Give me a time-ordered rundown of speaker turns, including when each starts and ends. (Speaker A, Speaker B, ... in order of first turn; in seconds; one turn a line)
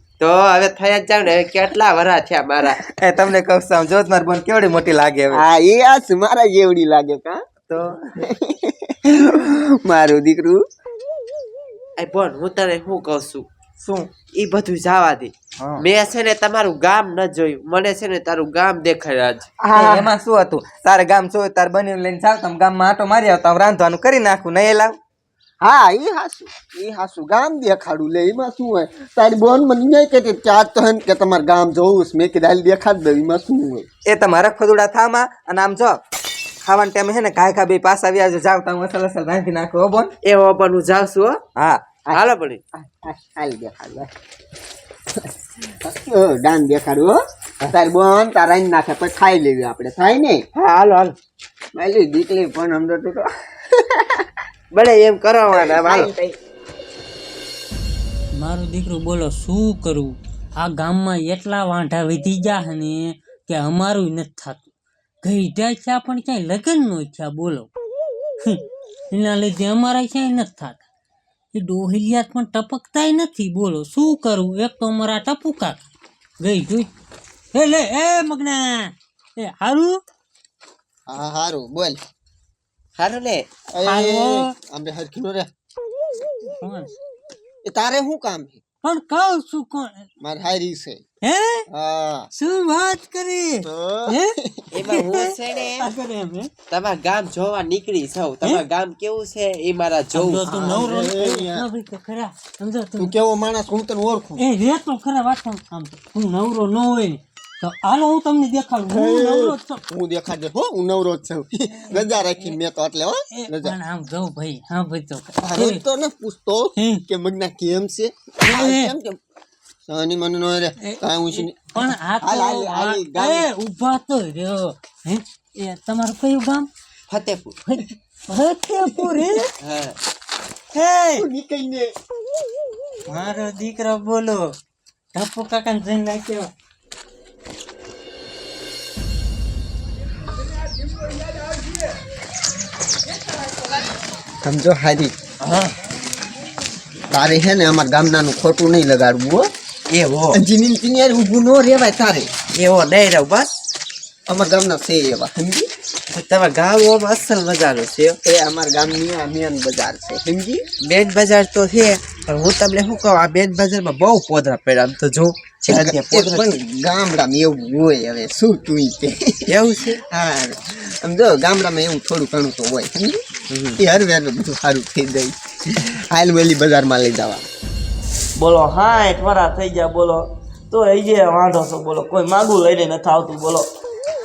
Speaker A: 0.2-2.8
Speaker B: 2.8-5.4
Speaker C: 5.3-7.4
Speaker C: 8.2-10.6
Speaker A: 12.0-13.5
Speaker B: 13.8-14.1
Speaker A: 14.3-19.5
Speaker C: 19.6-20.1
Speaker B: 19.7-24.9
Speaker C: 25.6-33.9
Speaker B: 34.1-36.0
Speaker B: 36.6-40.1
Speaker A: 40.2-41.4
Speaker B: 41.5-41.8
Speaker C: 42.1-44.1
Speaker A: 42.1-42.6
Speaker C: 45.8-47.2
Speaker C: 47.7-50.4
Speaker A: 50.5-51.1
Speaker C: 51.7-54.2
Speaker A: 54.7-56.1
Speaker C: 55.5-56.4
Speaker D: 58.4-64.6
Speaker D: 65.2-67.7
Speaker D: 68.5-70.8
Speaker D: 71.5-75.8
Speaker D: 76.4-76.9
Speaker D: 77.5-80.0
Speaker C: 81.1-82.0
Speaker A: 83.0-83.5
Speaker C: 83.7-85.5
Speaker D: 83.8-84.5
Speaker D: 86.5-86.9
Speaker C: 87.6-88.6
Speaker D: 88.8-90.1
Speaker C: 90.2-91.0
Speaker D: 91.2-91.7
Speaker C: 91.7-92.3
Speaker D: 92.3-96.5
Speaker C: 93.6-94.7
Speaker A: 94.7-95.9
Speaker A: 96.7-100.5
Speaker D: 100.1-103.1
Speaker C: 100.4-101.7
Speaker C: 103.0-104.4
Speaker D: 104.4-109.8
Speaker C: 108.9-113.8
Speaker D: 111.8-112.3
Speaker D: 113.3-115.8
Speaker C: 115.4-119.2
Speaker D: 116.8-117.0
Speaker D: 118.5-118.9
Speaker C: 119.9-123.4
Speaker D: 120.8-126.7
Speaker A: 127.1-127.6
Speaker D: 127.7-129.5
Speaker A: 129.6-129.9
Speaker D: 130.7-131.2
Speaker C: 131.2-131.9
Speaker D: 133.1-134.6
Speaker D: 135.1-136.5
Speaker C: 144.4-145.2
Speaker A: 145.4-145.7
Speaker C: 147.1-149.5
Speaker A: 149.9-150.4
Speaker C: 150.3-152.3
Speaker A: 152.6-153.6
Speaker C: 154.3-155.7
Speaker A: 156.1-158.2
Speaker C: 158.2-160.6
Speaker A: 160.8-166.6
Speaker C: 165.7-169.5
Speaker A: 169.5-170.0
Speaker C: 170.1-173.2
Speaker A: 173.5-173.8
Speaker C: 173.8-177.4
Speaker E: 178.3-183.7